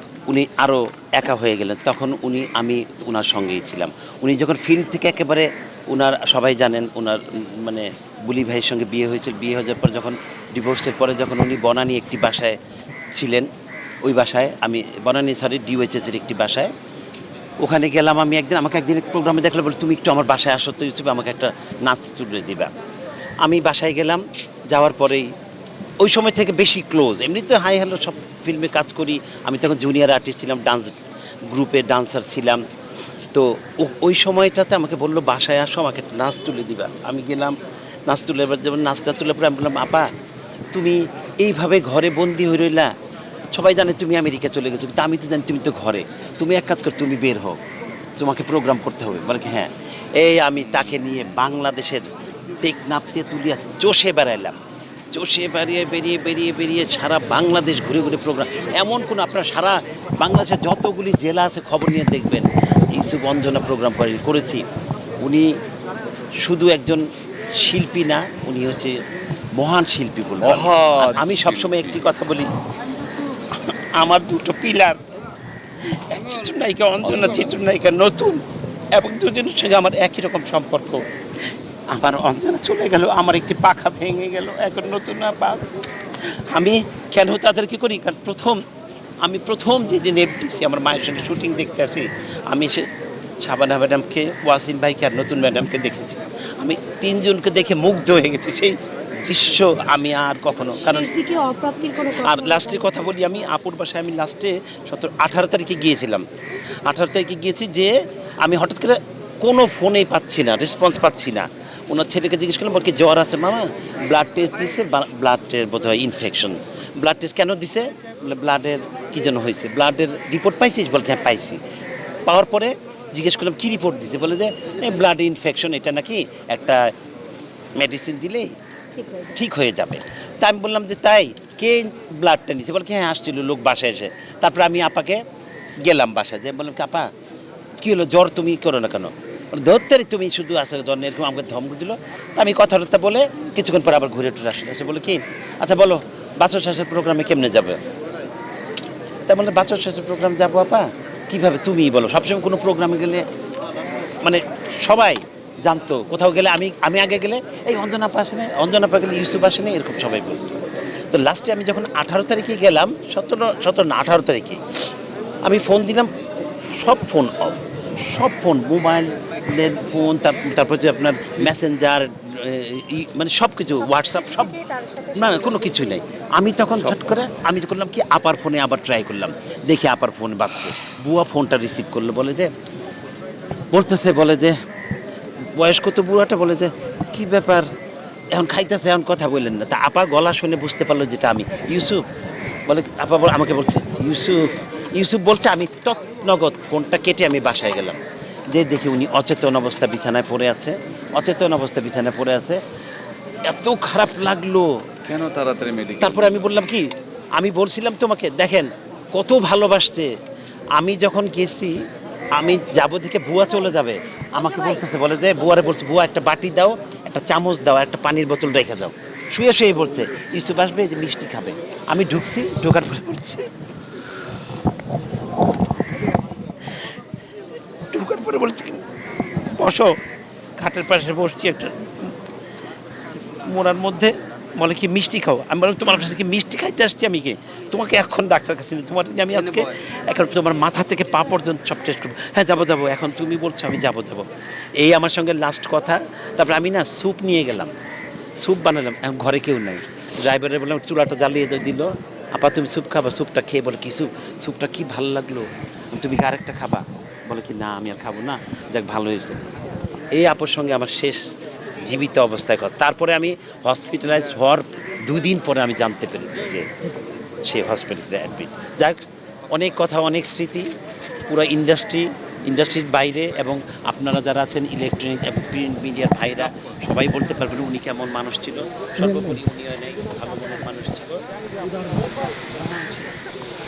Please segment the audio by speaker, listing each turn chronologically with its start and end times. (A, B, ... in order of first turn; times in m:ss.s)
0:00.3-0:12.6 A
0:13.1-0:13.5 A
0:14.0-0:16.7 A
0:17.6-0:22.7 A
0:23.4-0:25.2 A
0:26.0-0:31.0 A
0:31.5-0:32.6 A
0:33.3-0:37.5 A
0:38.1-0:40.1 A
0:40.7-0:42.9 A
0:43.5-0:47.6 A
0:48.2-0:52.0 A
0:50.5-0:51.3 B
0:52.6-0:54.6 A
0:55.1-1:04.6 A
1:05.2-1:05.5 A
1:06.4-1:07.0 A
1:07.6-1:09.0 A
1:09.6-1:12.5 A
1:10.4-1:12.1 B
1:13.5-1:15.0 A
1:16.1-1:18.4 A
1:17.0-1:17.6 B
1:18.9-1:21.0 A
1:21.9-1:25.8 A
1:26.5-1:28.6 A
1:29.2-1:32.8 A
1:33.4-1:41.1 A
1:40.8-1:43.1 C
1:42.2-1:46.2 A
1:46.8-2:01.6 A
2:02.2-2:06.8 A
2:07.8-2:08.5 A
2:08.9-2:09.4 C
2:09.4-2:15.2 A
2:15.8-2:17.1 A
2:17.8-2:27.8 A
2:29.3-2:33.2 A
2:34.2-2:44.6 A
2:45.4-2:46.1 A
2:46.7-2:54.5 A
2:53.8-2:56.0 C
2:55.2-3:02.5 A
3:03.7-3:04.5 A
3:05.6-3:07.7 A
3:08.3-3:12.0 A
3:12.7-3:18.0 A
3:18.5-3:22.6 A
3:23.5-3:24.7 A
3:25.0-3:26.6 B
3:26.0-3:30.1 A
3:30.8-3:31.7 A
3:32.4-3:43.5 A
3:34.4-3:34.6 C
3:47.9-3:48.8 A
3:49.6-3:49.9 A
3:50.6-3:52.1 A
3:53.5-4:04.2 A
4:04.8-4:07.7 A
4:08.4-4:19.4 A
4:20.1-4:21.2 A
4:21.8-4:26.7 A
4:27.4-4:29.0 A
4:29.5-4:30.6 A
4:31.3-4:41.2 A
4:42.7-4:43.1 A